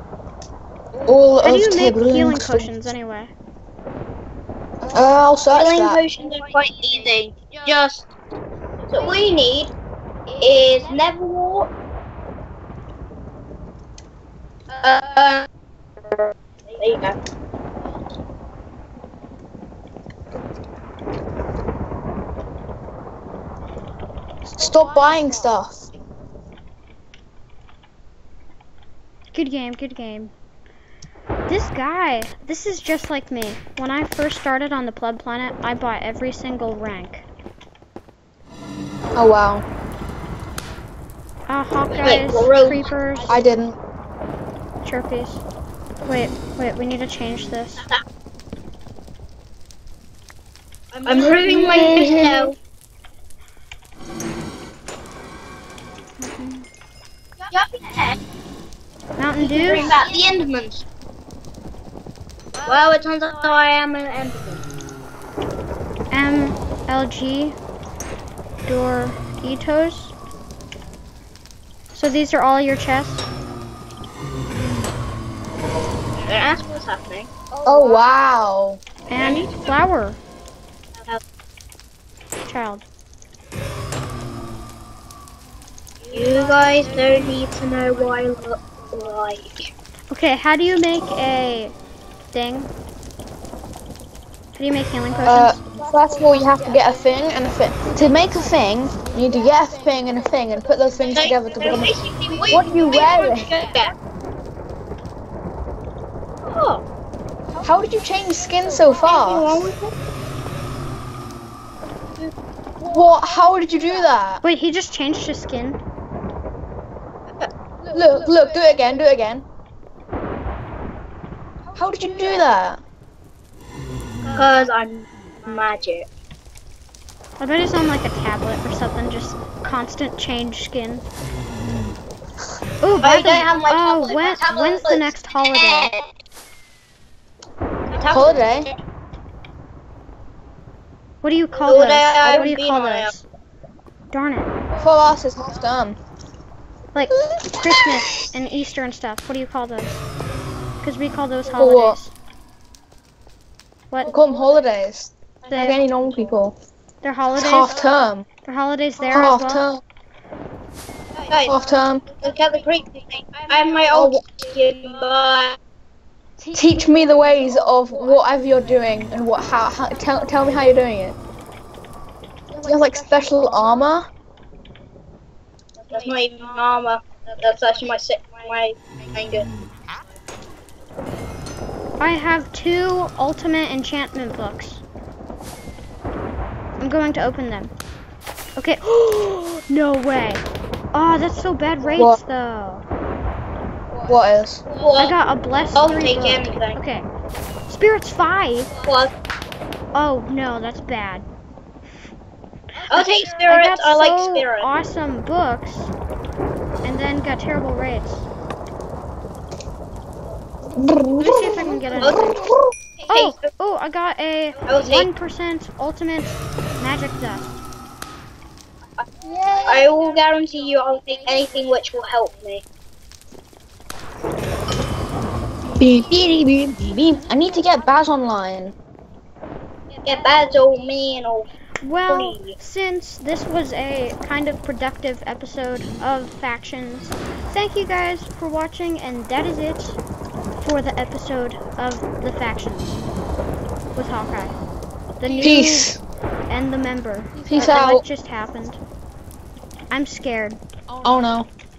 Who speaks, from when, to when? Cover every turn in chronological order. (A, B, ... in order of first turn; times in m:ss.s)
0:01.0-0:02.8 A
0:01.4-0:03.3 B
0:04.9-0:06.0 A
0:05.5-0:08.1 C
0:08.9-0:09.7 C
0:10.4-0:11.7 C
0:14.8-0:15.5 C
0:16.1-0:17.2 C
0:24.4-0:25.9 A
0:29.3-0:30.3 B
0:31.5-0:37.2 B
0:39.1-0:39.6 A
0:41.5-0:43.4 B
0:42.0-0:42.9 C
0:43.3-0:43.8 A
0:44.8-0:45.4 B
0:46.0-0:47.8 B
0:51.0-0:52.5 C
0:51.4-0:52.0 B
0:51.4-0:52.5 A
0:56.2-0:56.6 B
0:57.5-0:58.2 C
0:59.2-0:59.9 B
0:59.4-1:00.8 C
1:02.6-1:04.6 C
1:06.1-1:07.6 B
1:08.6-1:10.1 B
1:11.9-1:13.3 B
1:16.2-1:17.3 C
1:17.6-1:18.8 A
1:19.1-1:20.2 B
1:19.2-1:19.5 C
1:22.4-1:22.8 B
1:26.1-1:29.7 C
1:30.1-1:31.7 B
1:32.3-1:32.7 B
1:34.5-1:35.6 B
1:35.2-1:41.9 A
1:41.1-1:43.9 C
1:42.5-1:43.5 A
1:46.4-1:46.8 C
1:47.6-1:49.7 A
1:49.0-1:49.9 C
1:52.8-1:54.4 A
1:54.4-1:55.8 B
1:57.9-1:59.4 A
2:01.8-2:02.8 A
2:04.3-2:06.1 C
2:07.4-2:11.0 B
2:12.8-2:15.9 B
2:13.0-2:16.1 C
2:17.9-2:18.7 C
2:18.0-2:18.7 A
2:21.2-2:23.2 B
2:21.6-2:23.1 C
2:24.1-2:24.5 B
2:24.8-2:26.0 A
2:26.9-2:30.0 B
2:27.3-2:27.9 A
2:30.8-2:32.1 B
2:31.5-2:32.0 A
2:34.0-2:36.6 A
2:35.5-2:35.8 B
2:37.0-2:37.7 B
2:37.3-2:38.2 A
2:38.4-2:39.6 B
2:39.0-2:39.8 A
2:41.2-2:41.6 C
2:41.4-2:42.1 A
2:42.2-2:45.6 C
2:43.9-2:44.2 A
2:46.5-2:51.2 A
2:52.6-2:54.1 A
2:55.8-2:59.5 C
3:02.0-3:04.8 B
3:06.8-3:07.7 B
3:08.6-3:12.8 B
3:14.1-3:14.6 A
3:14.7-3:15.1 C
3:15.0-3:17.1 B
3:15.7-3:16.8 C
3:17.7-3:18.7 B
3:18.8-3:19.1 C
3:19.9-3:21.2 B
3:22.9-3:24.7 C
3:22.9-3:25.9 B
3:26.8-3:28.3 B
3:30.7-3:32.7 A
3:31.2-3:32.4 B
3:32.0-3:32.5 C
3:33.0-3:33.5 C
3:33.1-3:37.6 B
3:34.7-3:35.1 C
3:39.2-3:39.7 A
3:39.6-3:42.6 C
3:45.8-3:48.7 A
3:50.0-3:51.5 C
3:51.8-4:00.0 B
3:52.1-3:52.6 C
4:00.6-4:03.0 B
4:03.9-4:04.5 B
4:05.2-4:05.9 B
4:05.4-4:06.0 A
4:06.5-4:08.8 B
4:07.4-4:08.0 A
4:09.9-4:10.6 B
4:11.0-4:11.5 A